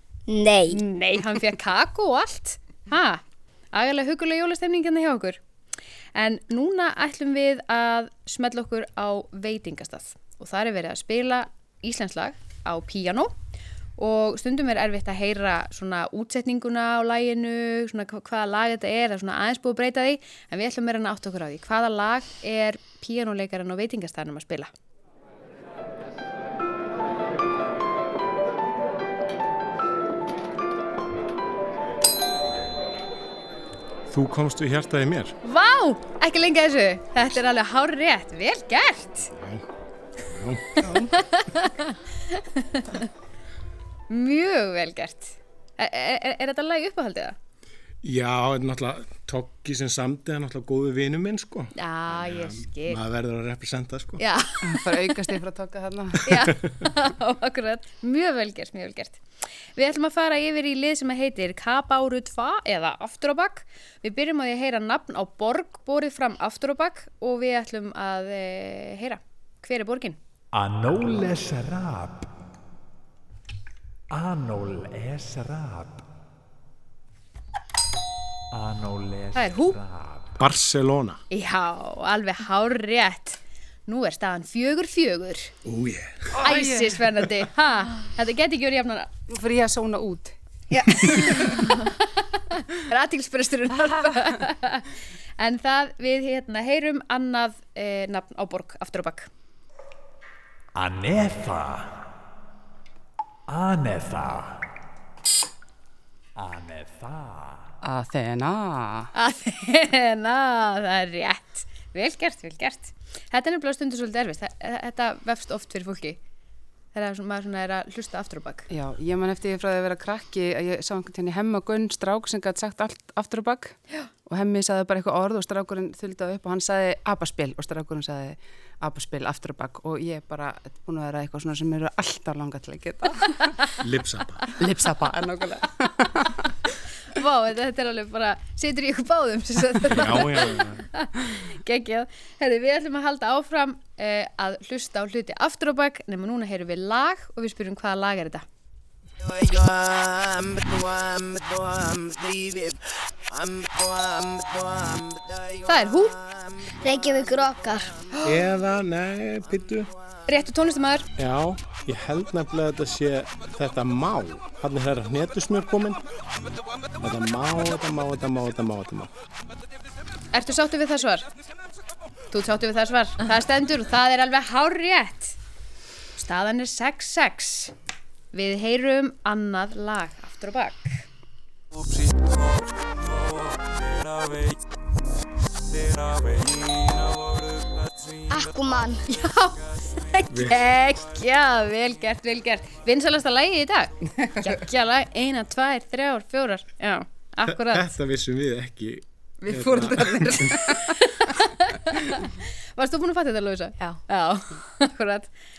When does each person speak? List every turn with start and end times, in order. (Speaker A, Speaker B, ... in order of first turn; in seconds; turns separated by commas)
Speaker A: 0.3-0.8, Speaker B: 0.7-3.2, Speaker B: 3.7-5.4, Speaker B: 6.1-13.3, Speaker B: 14.0-24.7, Speaker C: 34.1-35.4, Speaker B: 35.4-39.3, Speaker C: 39.3-39.6, Speaker C: 40.3-41.1, Speaker B: 41.2-43.1, Speaker B: 44.1-47.4, Speaker C: 48.0-54.2, Speaker B: 51.8-53.0, Speaker B: 54.2-55.2, Speaker D: 54.6-56.3, Speaker B: 56.2-59.2, Speaker B: 59.8-70.2, Speaker E: 70.5-72.3, Speaker E: 74.1-76.0, Speaker E: 78.5-80.4, Speaker B: 79.3-79.8, Speaker C: 80.4-81.2, Speaker B: 81.3-85.5, Speaker C: 85.6-86.5, Speaker B: 86.4-89.1, Speaker D: 86.4-87.0, Speaker D: 89.3-90.3, Speaker B: 90.7-99.3, Speaker E: 100.7-102.0, Speaker E: 103.5-104.6, Speaker E: 106.3-107.7, Speaker D: 107.8-109.1, Speaker B: 109.1-116.2, Speaker B: 116.9-118.7, Speaker D: 118.7-133.5, Speaker C: 133.8-134.5, Speaker D: 134.6-136.5, Speaker B: 137.1-148.4, Speaker C: 139.8-140.8, Speaker B: 155.6-156.2, Speaker A: 156.8-157.9, Speaker C: 158.2-159.9, Speaker B: 160.3-161.1, Speaker C: 161.2-166.0, Speaker C: 167.0-169.1, Speaker B: 170.3-171.3, Speaker B: 172.3-175.4, Speaker B: 176.2-177.7, Speaker B: 178.3-181.0, Speaker A: 188.3-189.1, Speaker B: 189.1-197.9, Speaker C: 190.3-190.6, Speaker C: 197.5-200.7, Speaker D: 199.5-200.8, Speaker B: 200.0-205.3